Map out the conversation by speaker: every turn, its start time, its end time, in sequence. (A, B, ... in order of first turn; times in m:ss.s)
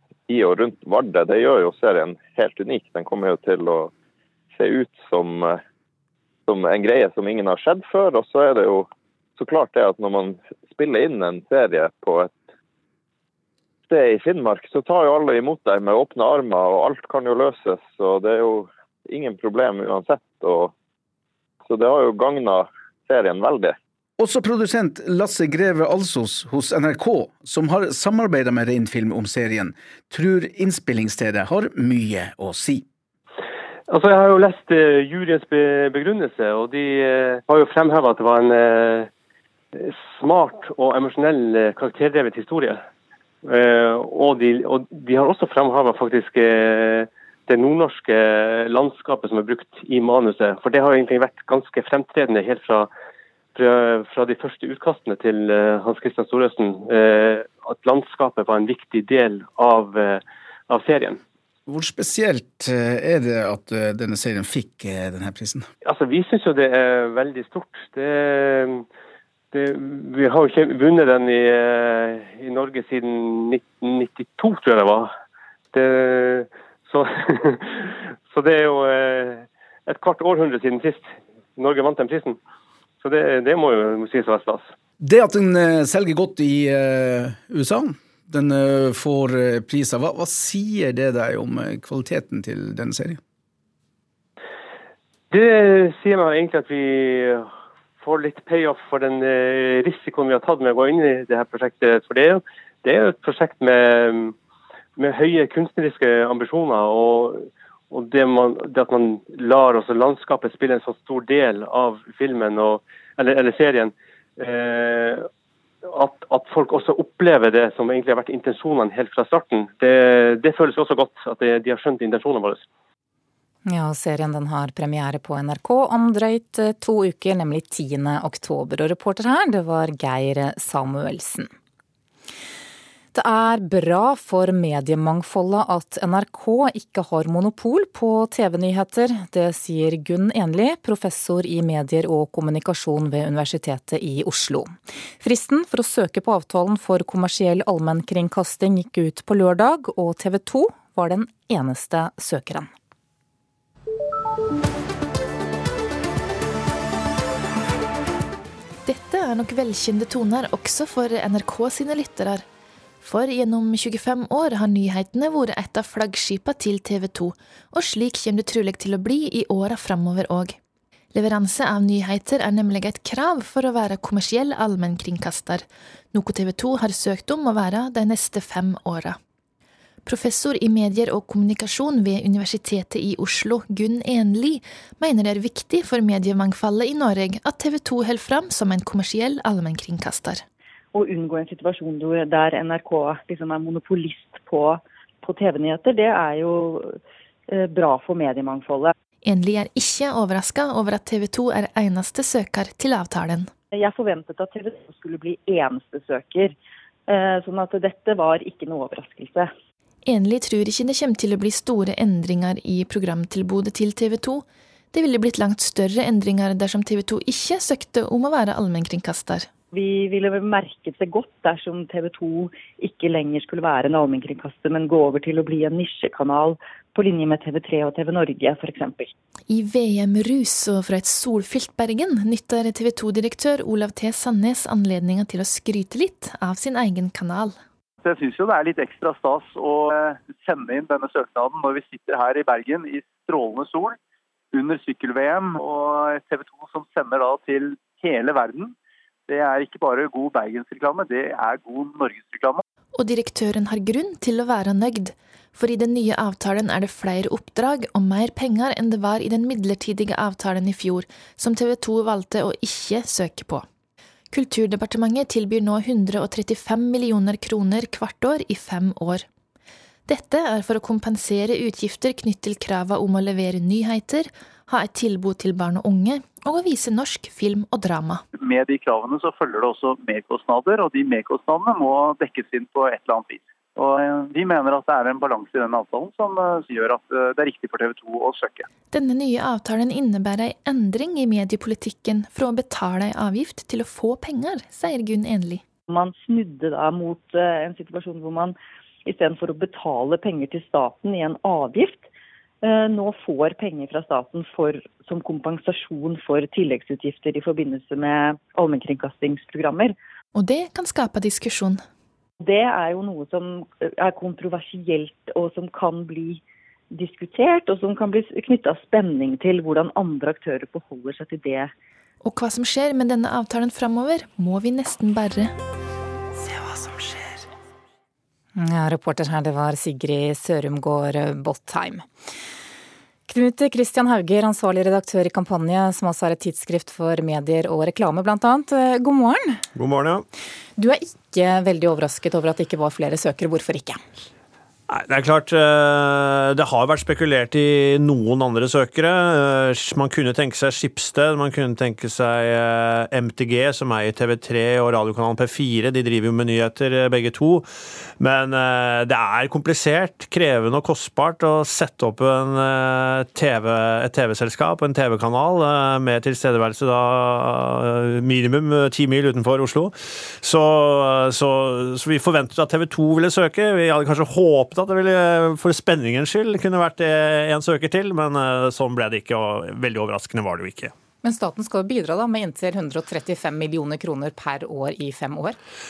0:00.3-0:03.8 A
0:04.6-0:05.5 A
0:06.5-0:08.8 A
0:09.4-0:12.3 A
0:13.9-0:20.7 A
0:21.7-0:23.7 A
0:24.2-0:32.8 B
0:33.9-0:39.1 C
0:39.8-0:42.8 C
0:43.4-0:52.9 C
0:53.5-1:01.2 C
1:01.7-1:05.7 B
1:05.8-1:08.8 C
1:09.5-1:15.1 C
1:15.7-1:22.4 C
1:23.0-1:24.6 C
1:25.0-1:33.2 B
1:35.3-1:37.4 C
1:38.0-1:44.3 C
1:45.0-1:55.3 C
1:55.9-2:02.6 C
2:03.7-2:11.5 D
2:13.1-2:32.7 D
2:38.8-2:42.4 E
2:43.0-2:50.6 E
2:51.1-2:59.2 E
3:00.0-3:10.4 E
3:10.9-3:16.9 F
3:17.5-3:18.9 F
3:19.2-3:23.5 E
3:23.7-3:26.6 F
3:27.1-3:29.5 F
3:30.0-3:39.5 E
3:39.7-3:49.1 F
3:49.5-3:57.6 E
3:58.0-4:04.0 G
4:04.5-4:08.7 G
4:09.3-4:12.6 G
4:13.0-4:23.6 E
4:24.3-4:29.2 E
4:30.1-4:38.2 E
4:38.4-4:48.6 G
4:48.9-4:55.6 E
4:55.9-4:58.5 F
4:59.0-5:02.0 F
5:02.6-5:10.0 F
5:10.3-5:11.8 E
5:12.4-5:16.4 F
5:16.9-5:21.7 F
5:22.2-5:25.5 E
5:28.6-5:32.0 D
5:33.3-5:39.6 D
5:39.7-5:40.2 H
5:40.8-5:44.0 D
5:44.9-5:57.6 H
5:58.2-6:20.9 H
6:21.2-6:25.6 D